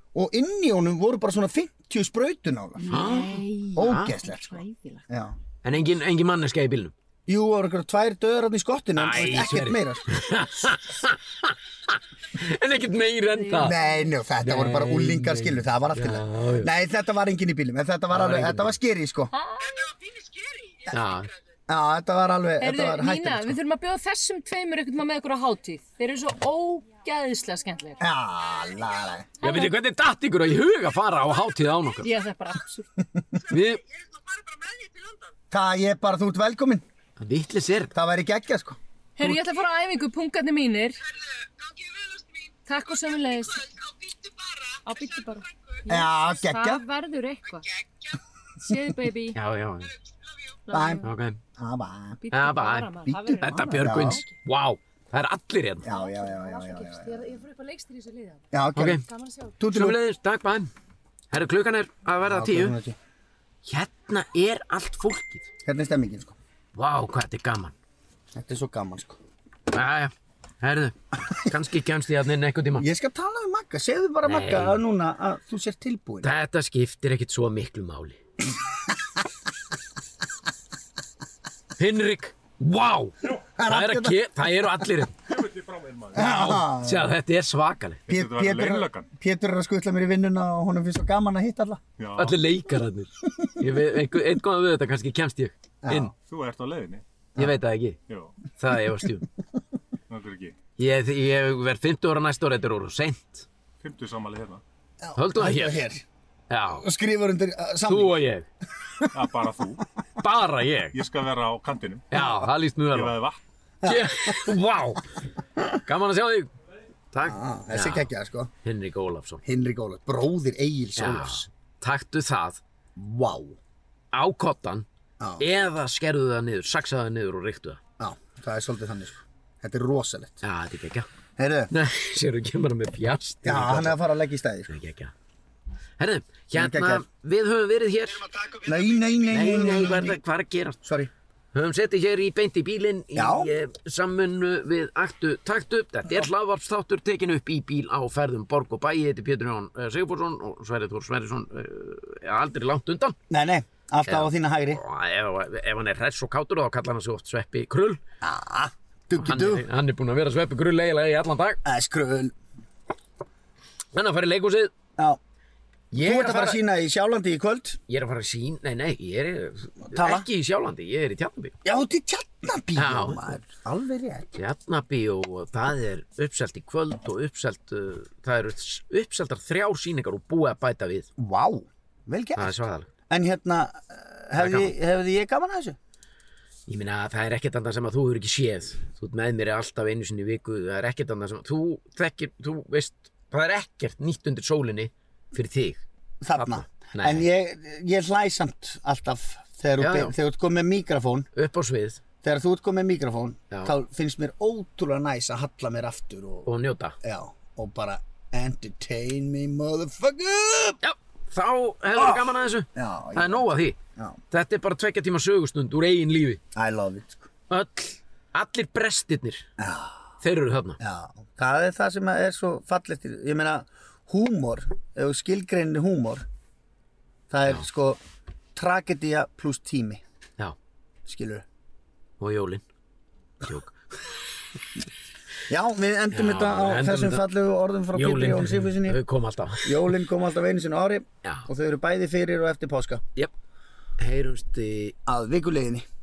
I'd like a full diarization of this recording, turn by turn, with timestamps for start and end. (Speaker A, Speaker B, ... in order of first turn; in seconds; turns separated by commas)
Speaker A: 0.1-3.0, Speaker B: 2.8-5.0, Speaker C: 2.9-4.1, Speaker A: 3.7-5.3, Speaker C: 5.6-6.9, Speaker A: 7.3-10.2, Speaker C: 8.9-13.8, Speaker B: 13.3-14.1, Speaker A: 13.6-19.3, Speaker C: 14.4-16.7, Speaker C: 18.1-18.7, Speaker B: 19.3-19.9, Speaker D: 19.6-21.4, Speaker C: 20.9-21.3, Speaker A: 21.7-23.6, Speaker B: 22.6-28.0, Speaker A: 28.0-29.3, Speaker B: 29.4-29.7, Speaker C: 29.4-32.1, Speaker D: 31.7-32.5, Speaker B: 32.0-32.9, Speaker C: 33.5-33.8, Speaker D: 33.5-35.3, Speaker A: 35.5-36.8, Speaker C: 37.2-37.9, Speaker A: 37.9-38.8, Speaker B: 39.2-41.0, Speaker D: 41.0-45.9, Speaker B: 42.7-43.6, Speaker B: 44.9-47.6, Speaker A: 45.9-46.8, Speaker D: 47.5-48.2, Speaker B: 48.6-49.4, Speaker C: 49.3-49.9, Speaker D: 49.9-50.6, Speaker B: 50.7-51.0, Speaker A: 50.7-51.0, Speaker C: 51.0-51.4, Speaker A: 51.6-52.2, Speaker B: 52.2-54.3, Speaker C: 52.3-55.9, Speaker A: 53.5-54.2, Speaker A: 55.8-57.3, Speaker B: 55.9-58.5, Speaker A: 58.5-59.0, Speaker C: 58.8-59.0, Speaker B: 59.0-59.5, Speaker A: 59.6-60.0, Speaker C: 59.6-60.7, Speaker C: 61.3-62.8, Speaker A: 62.2-63.0, Speaker C: 63.6-65.5, Speaker A: 65.6-66.4, Speaker C: 66.7-67.7, Speaker A: 68.3-69.2, Speaker C: 69.7-72.9, Speaker A: 72.8-76.3, Speaker C: 74.2-74.8, Speaker C: 76.2-78.2, Speaker C: 81.8-85.2, Speaker A: 83.5-84.2, Speaker E: 85.3-86.6, Speaker A: 86.1-87.1, Speaker C: 86.1-88.0, Speaker E: 88.1-89.1, Speaker A: 88.1-91.8, Speaker E: 92.0-92.4, Speaker C: 92.2-96.1, Speaker A: 95.8-96.1, Speaker E: 96.2-97.0, Speaker C: 97.4-98.0, Speaker E: 98.1-98.3, Speaker C: 98.6-99.3, Speaker E: 100.1-100.5, Speaker C: 100.8-103.5, Speaker E: 103.8-104.6, Speaker A: 105.0-106.0, Speaker C: 105.2-105.9, Speaker C: 106.5-106.8, Speaker A: 106.7-108.2, Speaker C: 107.9-108.5, Speaker A: 108.8-109.1, Speaker E: 109.1-109.8, Speaker C: 110.2-111.0, Speaker E: 110.9-112.1, Speaker C: 112.1-113.2, Speaker A: 112.1-112.5, Speaker E: 112.9-113.4, Speaker A: 113.8-114.6, Speaker C: 113.8-115.2, Speaker C: 115.8-116.5, Speaker C: 117.1-118.1, Speaker A: 117.2-118.5, Speaker C: 118.6-119.4, Speaker A: 119.4-121.5, Speaker C: 121.0-122.6, Speaker A: 123.0-123.6, Speaker C: 124.1-124.9, Speaker A: 125.2-125.5, Speaker C: 125.4-127.8, Speaker A: 128.0-130.4, Speaker C: 130.4-131.1, Speaker A: 131.4-131.7, Speaker C: 131.7-134.0, Speaker A: 133.4-134.7, Speaker C: 134.7-135.1, Speaker C: 136.0-138.3, Speaker A: 136.5-137.0, Speaker A: 138.6-140.2, Speaker C: 139.3-140.8, Speaker A: 140.8-141.1, Speaker C: 141.5-153.2, Speaker A: 143.1-143.5, Speaker A: 153.3-154.8, Speaker C: 154.0-158.0, Speaker A: 158.2-159.7, Speaker C: 159.2-161.6, Speaker A: 161.6-162.3, Speaker C: 163.9-164.7, Speaker C: 165.9-166.6, Speaker A: 165.9-167.8, Speaker C: 167.9-171.5, Speaker A: 169.9-170.3, Speaker A: 171.6-174.3, Speaker C: 172.8-173.3, Speaker C: 174.4-181.1, Speaker A: 181.2-182.6, Speaker C: 182.4-182.9, Speaker A: 183.1-185.8, Speaker C: 184.4-184.7, Speaker C: 186.7-197.3, Speaker A: 196.2-201.3, Speaker C: 199.8-200.1, Speaker C: 201.3-202.0, Speaker A: 202.2-206.5, Speaker C: 203.5-203.8, Speaker C: 206.4-206.9, Speaker A: 207.0-210.8, Speaker C: 210.8-213.8, Speaker A: 211.9-214.2, Speaker C: 214.3-216.4, Speaker A: 216.5-217.3, Speaker C: 217.5-219.5, Speaker A: 219.6-220.1, Speaker C: 220.2-220.8, Speaker A: 220.8-226.2, Speaker A: 227.3-228.0, Speaker A: 228.5-230.0, Speaker A: 231.1-231.4, Speaker C: 232.2-232.6, Speaker C: 233.4-234.1, Speaker A: 235.5-239.0, Speaker C: 236.1-237.2, Speaker C: 237.9-239.9, Speaker A: 239.6-243.0, Speaker C: 244.0-244.9, Speaker A: 245.1-245.9